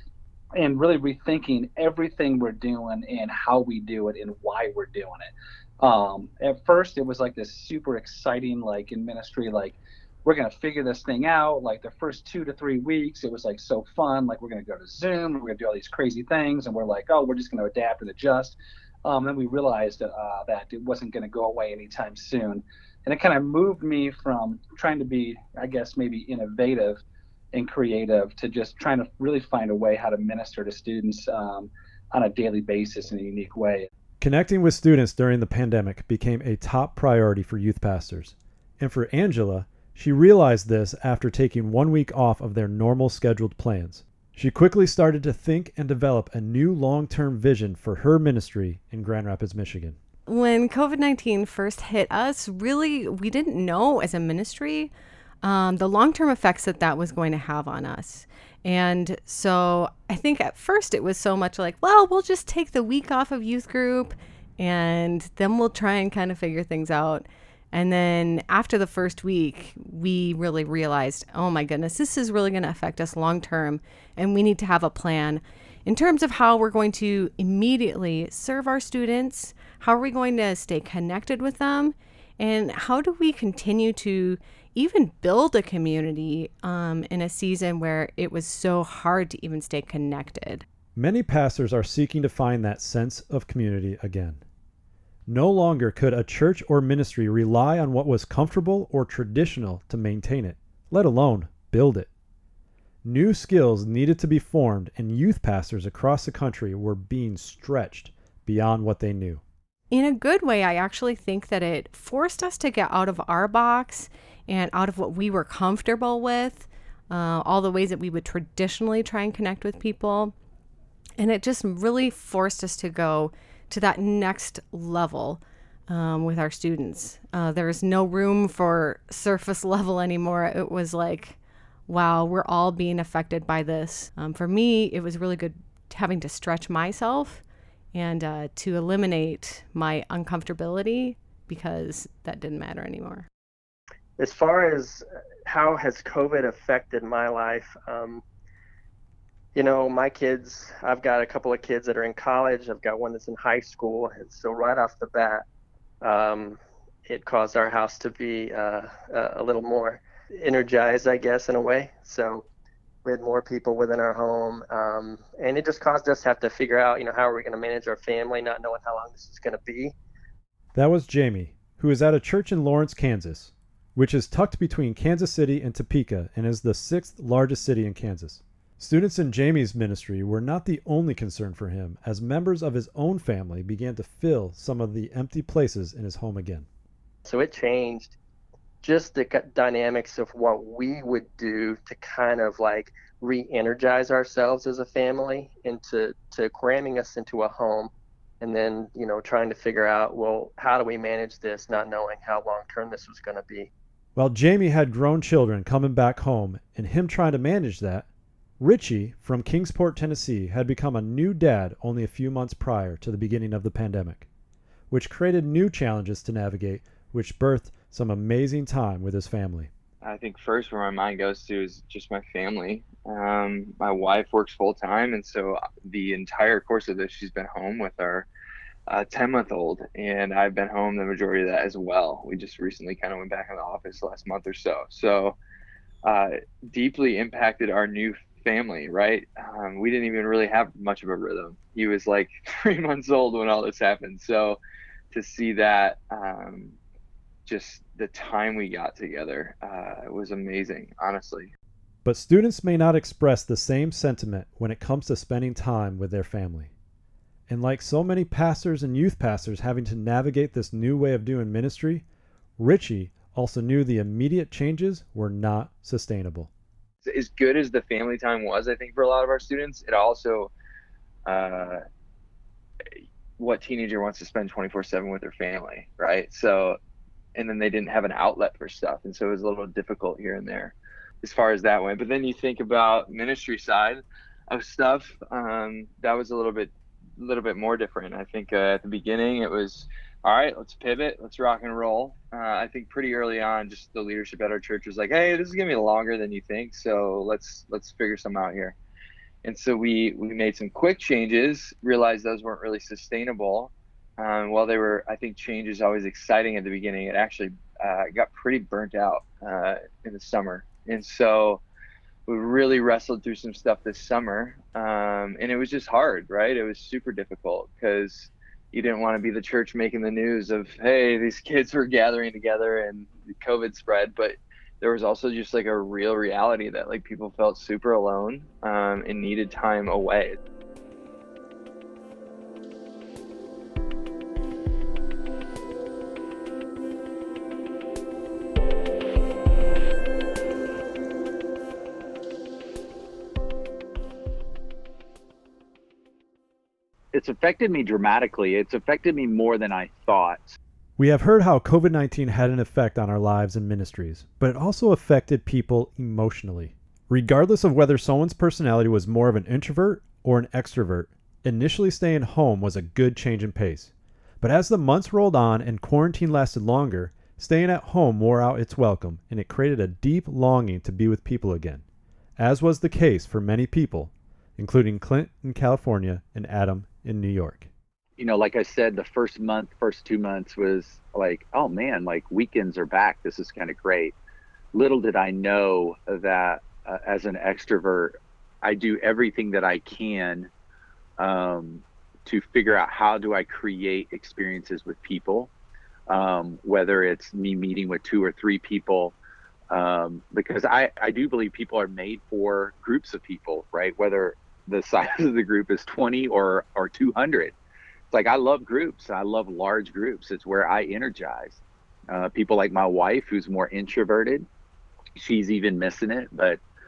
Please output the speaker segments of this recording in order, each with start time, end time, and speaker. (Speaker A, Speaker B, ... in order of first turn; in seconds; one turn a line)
Speaker A: 0.6-27.0
Speaker A: 27.5-33.9
Speaker B: 34.2-50.0
Speaker C: 50.3-54.9
Speaker C: 55.4-90.7
Speaker B: 91.0-94.4
Speaker B: 95.3-102.1
Speaker B: 103.0-109.4
Speaker C: 109.9-120.3
Speaker C: 121.2-143.3
Speaker D: 144.2-148.2
Speaker D: 149.5-155.4
Speaker D: 156.0-162.5
Speaker D: 163.1-169.9
Speaker B: 170.7-186.7
Speaker D: 187.3-188.2
Speaker D: 188.8-203.7
Speaker B: 204.2-208.1
Speaker B: 208.6-214.3
Speaker B: 214.9-219.7
Speaker E: 220.0-228.3
Speaker E: 228.9-235.4
Speaker E: 236.0-244.6
Speaker E: 245.1-246.8
Speaker E: 247.5-251.5
Speaker B: 252.1-256.7
Speaker B: 257.5-262.1
Speaker B: 262.6-266.5
Speaker E: 267.0-270.5
Speaker E: 271.3-271.8
Speaker E: 273.4-276.8
Speaker E: 277.4-298.8
Speaker E: 299.4-311.6
Speaker E: 312.3-330.4
Speaker F: 347.1-350.6
Speaker B: 351.0-371.8
Speaker B: 372.4-377.7
Speaker F: 378.2-384.1
Speaker F: 384.7-390.5
Speaker F: 391.2-395.5
Speaker F: 396.1-399.2
Speaker F: 399.7-407.6
Speaker F: 408.1-414.5
Speaker F: 415.2-416.6